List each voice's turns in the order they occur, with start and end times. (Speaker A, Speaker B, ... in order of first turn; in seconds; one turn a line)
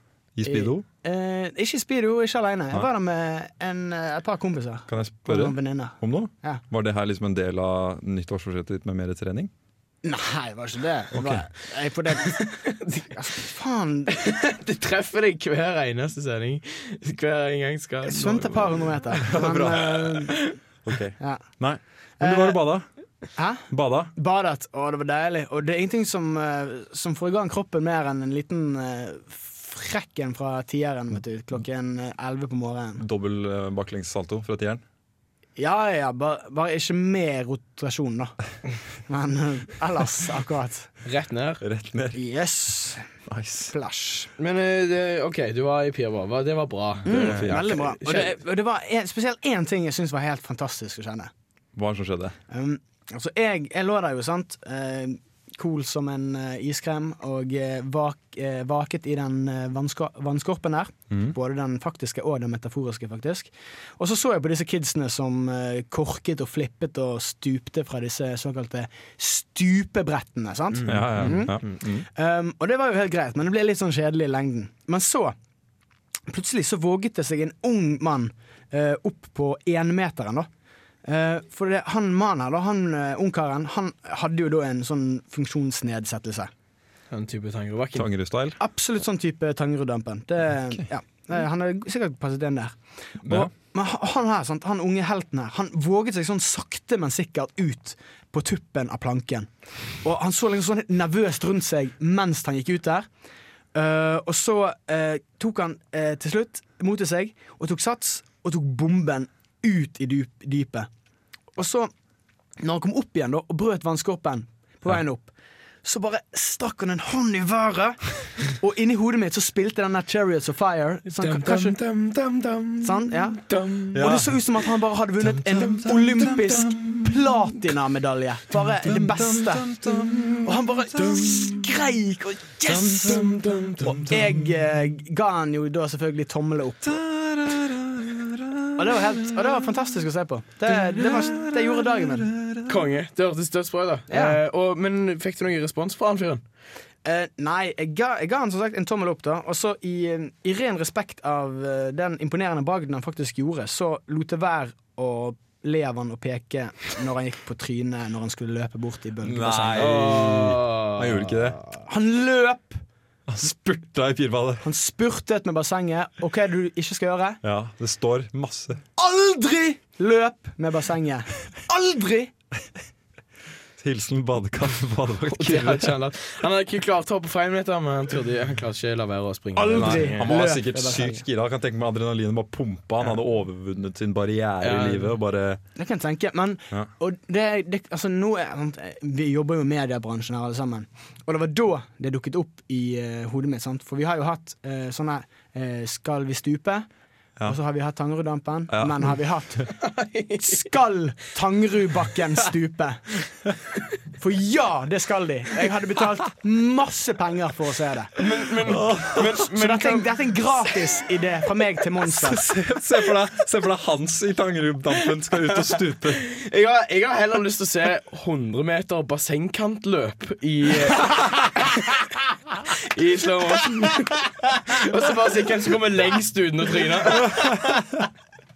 Speaker A: 0.3-0.8
Speaker B: 0.5-6.6
Speaker A: 4.9-9.5
Speaker B: 10.0-14.2
Speaker A: 11.1-11.5
Speaker C: 12.2-13.1
Speaker C: 14.1-18.9
Speaker B: 18.0-20.4
Speaker A: 19.2-20.3
Speaker C: 20.3-20.5
Speaker A: 20.8-22.9
Speaker B: 22.2-22.6
Speaker B: 23.4-33.0
Speaker A: 23.7-24.1
Speaker A: 33.0-34.8
Speaker B: 35.6-38.4
Speaker B: 39.1-40.9
Speaker C: 41.0-41.6
Speaker A: 41.6-42.2
Speaker B: 42.1-43.0
Speaker A: 43.3-43.7
Speaker B: 43.7-44.3
Speaker C: 44.4-48.4
Speaker A: 47.0-47.7
Speaker B: 47.0-51.3
Speaker A: 51.7-52.4
Speaker B: 52.5-75.3
Speaker A: 61.1-61.4
Speaker C: 70.8-71.5
Speaker A: 70.8-72.0
Speaker B: 76.3-80.5
Speaker B: 81.0-86.5
Speaker C: 87.1-88.1
Speaker A: 87.9-88.6
Speaker B: 88.6-99.5
Speaker A: 93.2-93.5
Speaker B: 100.0-103.1
Speaker B: 103.7-110.9
Speaker B: 111.5-111.9
Speaker B: 112.6-115.3
Speaker B: 115.8-121.8
Speaker C: 121.1-124.1
Speaker B: 122.8-123.4
Speaker B: 123.9-129.8
Speaker A: 123.9-124.4
Speaker A: 125.4-127.5
Speaker A: 128.8-131.6
Speaker B: 130.4-133.2
Speaker A: 132.6-134.5
Speaker C: 133.0-133.9
Speaker B: 133.8-137.0
Speaker A: 136.8-139.6
Speaker B: 138.8-142.3
Speaker A: 140.7-142.8
Speaker C: 142.7-146.4
Speaker B: 144.1-144.4
Speaker B: 147.0-160.0
Speaker A: 159.2-161.6
Speaker C: 159.8-161.7
Speaker B: 161.9-162.8
Speaker A: 163.3-164.7
Speaker B: 164.6-167.4
Speaker A: 167.4-168.8
Speaker B: 169.0-172.3
Speaker A: 173.8-175.9
Speaker C: 175.3-180.2
Speaker B: 179.6-181.2
Speaker A: 179.7-185.6
Speaker C: 184.6-185.2
Speaker B: 185.8-196.9
Speaker B: 197.4-199.7
Speaker A: 198.7-199.2
Speaker C: 199.8-200.6
Speaker B: 200.4-203.2
Speaker B: 204.2-208.1
Speaker C: 208.2-210.1
Speaker A: 208.7-209.4
Speaker B: 209.5-212.4
Speaker A: 212.0-216.2
Speaker C: 215.5-222.0
Speaker C: 222.8-227.4
Speaker B: 227.2-227.8